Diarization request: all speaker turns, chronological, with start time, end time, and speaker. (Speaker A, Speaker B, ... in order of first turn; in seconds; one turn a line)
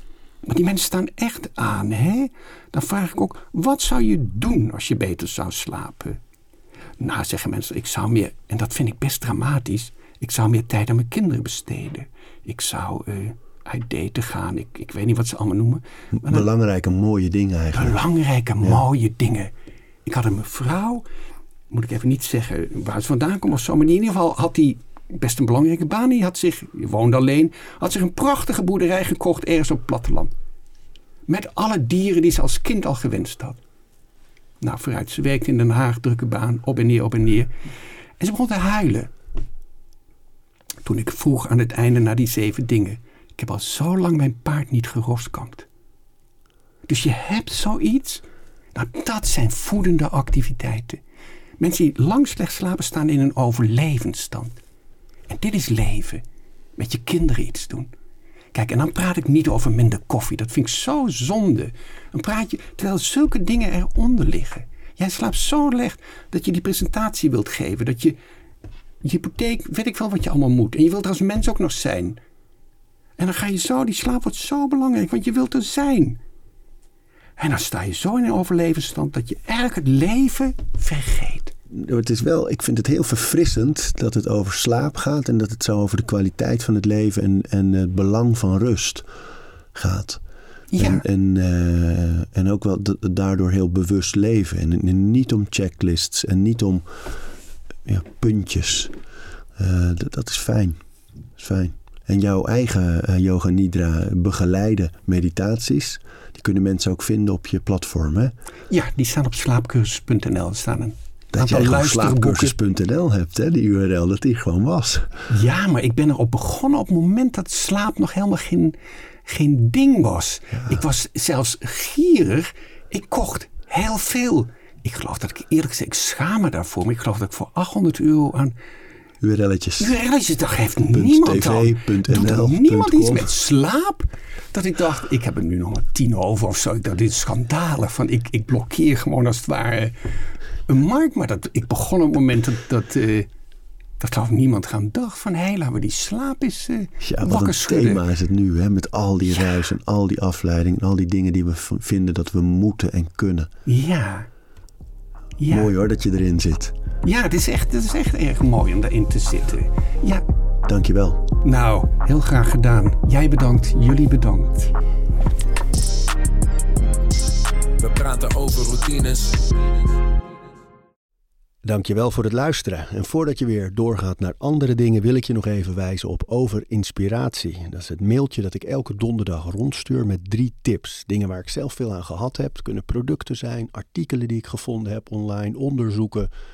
Speaker A: 0.4-6.2
Speaker A: 7.0-16.4
Speaker B: 16.1-18.0
Speaker A: 17.7-19.5
Speaker A: 20.0-21.0
Speaker A: 21.7-30.3
Speaker A: 31.3-33.6
Speaker A: 34.6-37.5
Speaker A: 38.2-39.1
Speaker A: 40.8-45.7
Speaker A: 46.9-51.0
Speaker A: 51.6-54.6
Speaker A: 55.3-56.2
Speaker A: 56.8-57.9
Speaker A: 58.5-68.2
Speaker A: 69.0-72.2
Speaker A: 73.2-76.2
Speaker A: 77.4-81.5
Speaker B: 81.7-89.0
Speaker B: 89.7-90.2
Speaker A: 90.7-91.0
Speaker B: 90.8-96.8
Speaker B: 97.8-98.9
Speaker B: 99.6-100.8
Speaker B: 101.4-108.3
Speaker A: 108.7-112.5
Speaker B: 111.3-115.1
Speaker A: 115.3-128.5
Speaker B: 120.5-120.8
Speaker B: 129.2-130.0
Speaker A: 129.8-139.9
Speaker B: 130.9-133.3
Speaker A: 140.7-143.3
Speaker A: 144.0-148.0
Speaker B: 147.0-153.5
Speaker A: 153.7-154.3
Speaker A: 155.4-155.7
Speaker B: 155.5-156.7
Speaker A: 157.0-160.2
Speaker B: 160.7-161.3
Speaker A: 161.4-164.7
Speaker C: 167.8-169.7
Speaker B: 171.6-186.3